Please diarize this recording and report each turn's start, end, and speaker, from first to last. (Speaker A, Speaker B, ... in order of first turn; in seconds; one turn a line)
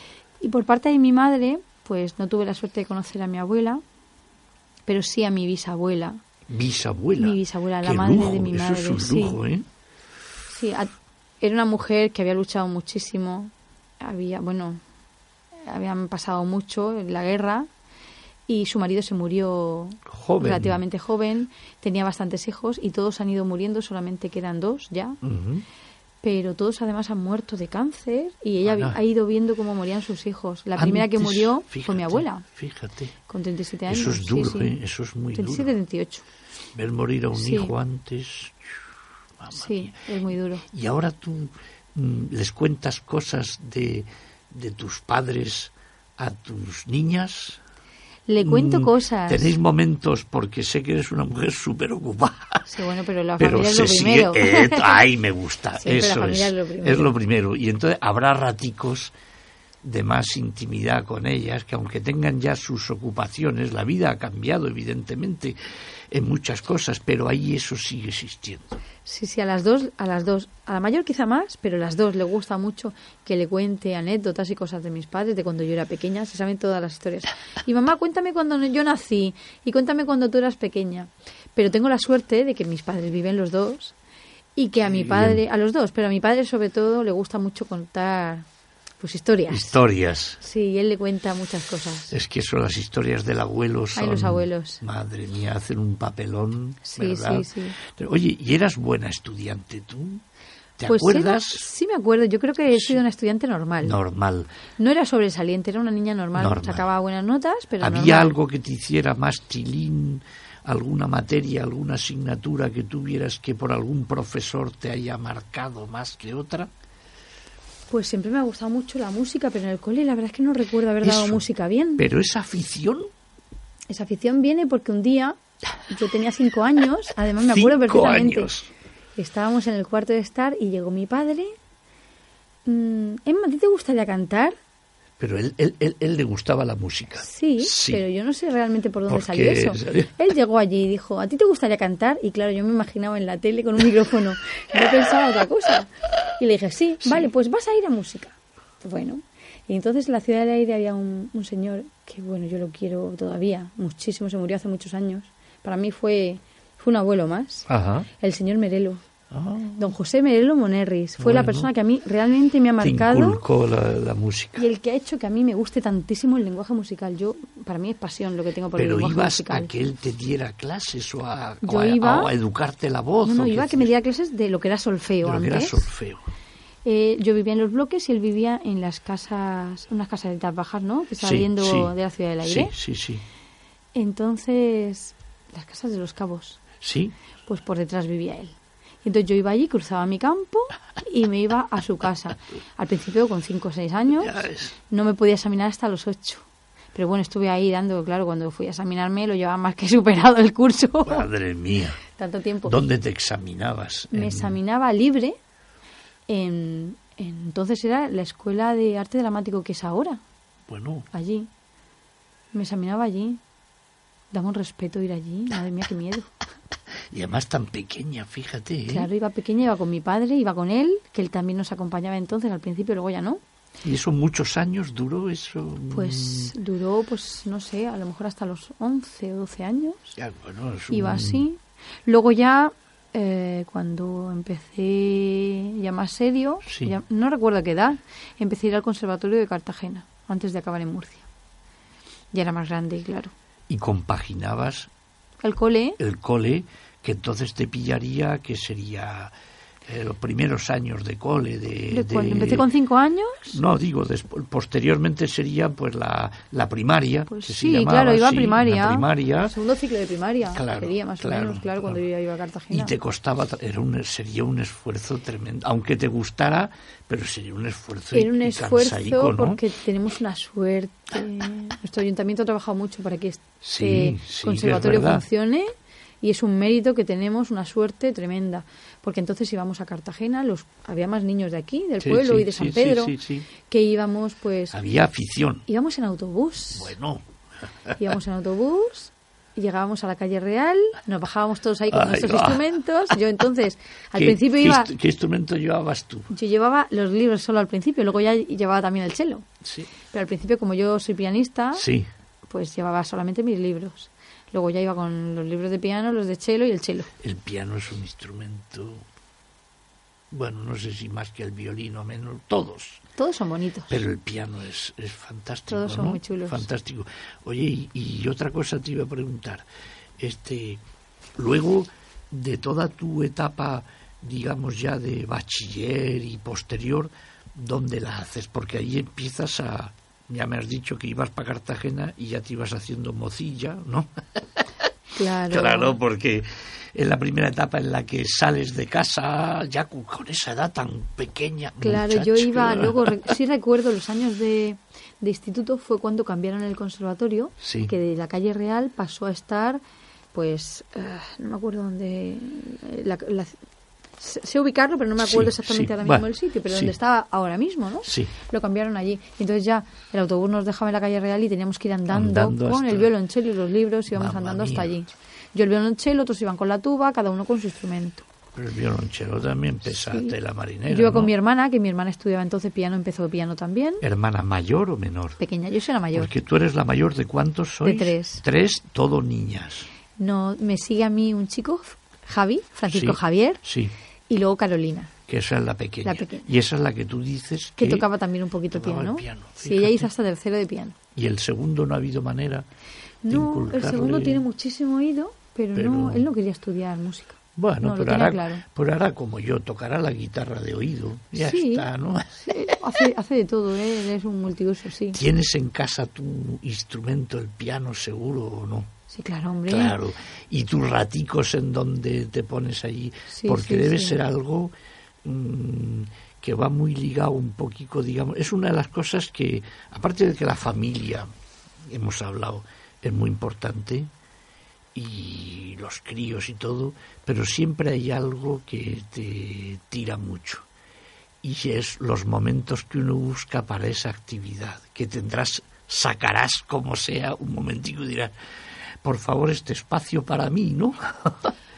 Speaker A: 0.4-3.8
Speaker A: 4.9-6.2
Speaker B: 6.5-9.7
Speaker A: 7.2-9.4
Speaker A: 10.5-14.8
Speaker A: 15.6-17.7
Speaker A: 18.5-25.2
Speaker B: 20.1-20.8
Speaker B: 25.2-25.6
Speaker A: 26.2-32.5
Speaker B: 28.6-29.0
Speaker B: 30.8-33.1
Speaker A: 33.3-34.8
Speaker B: 33.9-35.8
Speaker A: 35.3-36.3
Speaker B: 36.7-38.7
Speaker A: 37.4-37.7
Speaker B: 39.4-40.0
Speaker A: 39.5-40.6
Speaker B: 40.7-47.6
Speaker A: 48.3-49.5
Speaker B: 48.4-52.7
Speaker A: 52.7-55.0
Speaker B: 53.4-59.1
Speaker A: 55.8-57.1
Speaker B: 59.8-65.6
Speaker B: 66.1-68.8
Speaker A: 69.0-84.0
Speaker A: 84.6-88.5
Speaker B: 84.8-85.4
Speaker A: 89.0-89.8
Speaker B: 89.5-90.4
Speaker A: 90.4-92.2
Speaker B: 92.1-100.2
Speaker A: 94.0-94.8
Speaker A: 96.8-97.8
Speaker B: 100.8-101.7
Speaker A: 100.8-104.0
Speaker B: 103.8-104.5
Speaker A: 104.8-108.4
Speaker B: 106.4-106.9
Speaker B: 107.8-116.7
Speaker A: 117.9-122.0
Speaker B: 121.0-121.4
Speaker B: 122.0-123.1
Speaker A: 123.9-128.5
Speaker B: 127.5-128.7
Speaker A: 129.2-131.5
Speaker A: 132.7-134.6
Speaker B: 135.2-138.0
Speaker A: 137.2-159.0
Speaker B: 139.1-140.2
Speaker B: 157.7-158.1
Speaker B: 159.3-159.8
Speaker A: 159.8-163.4
Speaker B: 161.2-161.7
Speaker B: 162.8-164.7
Speaker A: 164.6-169.7
Speaker B: 168.8-173.9
Speaker A: 171.6-172.3
Speaker A: 173.2-175.9
Speaker B: 175.2-176.3
Speaker A: 176.8-182.7
Speaker B: 181.2-183.2
Speaker A: 183.9-186.6
Speaker B: 186.8-187.1
Speaker A: 187.5-201.3
Speaker B: 194.1-194.8
Speaker B: 201.1-202.0
Speaker A: 202.1-202.8
Speaker B: 202.7-204.6
Speaker A: 204.1-205.4
Speaker A: 206.3-210.2
Speaker B: 210.7-211.1
Speaker A: 211.1-211.5
Speaker A: 212.5-213.4
Speaker A: 214.3-216.3
Speaker B: 217.1-219.1
Speaker A: 218.9-223.4
Speaker B: 223.8-226.5
Speaker A: 225.9-230.2
Speaker B: 230.2-231.4
Speaker A: 230.9-241.2
Speaker B: 236.7-237.0
Speaker A: 242.3-243.3
Speaker B: 243.7-244.9
Speaker A: 245.4-246.0
Speaker B: 246.0-249.3
Speaker B: 249.9-252.7
Speaker A: 251.9-253.6
Speaker B: 253.5-259.5
Speaker A: 257.3-262.9
Speaker B: 260.5-262.0
Speaker B: 262.7-269.6
Speaker A: 268.1-284.8
Speaker B: 273.6-275.2
Speaker B: 282.0-283.5
Speaker B: 284.7-285.7
Speaker A: 285.7-286.9
Speaker B: 286.7-287.2
Speaker A: 288.0-294.9
Speaker B: 291.9-292.6
Speaker B: 294.1-296.3
Speaker A: 296.3-299.5
Speaker B: 299.6-299.9
Speaker A: 300.1-301.9
Speaker B: 301.7-302.1
Speaker A: 302.5-307.1
Speaker B: 307.2-309.1
Speaker B: 310.3-313.0
Speaker A: 313.2-314.0
Speaker B: 313.9-319.7
Speaker A: 315.7-316.7
Speaker B: 320.2-320.8
Speaker B: 321.4-334.7
Speaker A: 335.1-336.0
Speaker B: 335.5-343.3
Speaker A: 341.8-349.8
Speaker B: 347.6-347.9
Speaker A: 350.3-353.6
Speaker A: 354.2-368.2
Speaker B: 355.2-356.9
Speaker B: 358.1-358.3
Speaker B: 362.1-363.1
Speaker B: 364.1-364.9
Speaker B: 368.6-371.3
Speaker A: 370.1-370.3
Speaker A: 370.9-374.0
Speaker B: 374.0-375.4
Speaker A: 375.4-376.3
Speaker B: 376.1-379.9
Speaker A: 377.8-378.4
Speaker A: 380.2-383.6
Speaker B: 382.9-383.9
Speaker A: 384.3-385.1
Speaker B: 385.3-388.1
Speaker A: 386.1-386.5
Speaker A: 387.8-391.0
Speaker B: 388.7-390.1
Speaker B: 391.1-392.7
Speaker A: 393.2-398.6
Speaker B: 393.3-394.4
Speaker B: 395.8-396.3
Speaker B: 397.6-402.8
Speaker A: 401.4-401.9
Speaker A: 402.4-405.2
Speaker B: 405.1-408.9
Speaker A: 409.1-410.0
Speaker B: 409.7-414.7
Speaker A: 413.3-414.2
Speaker B: 415.2-421.3
Speaker B: 421.9-424.1
Speaker B: 424.9-430.6
Speaker B: 431.4-438.3
Speaker B: 439.0-441.5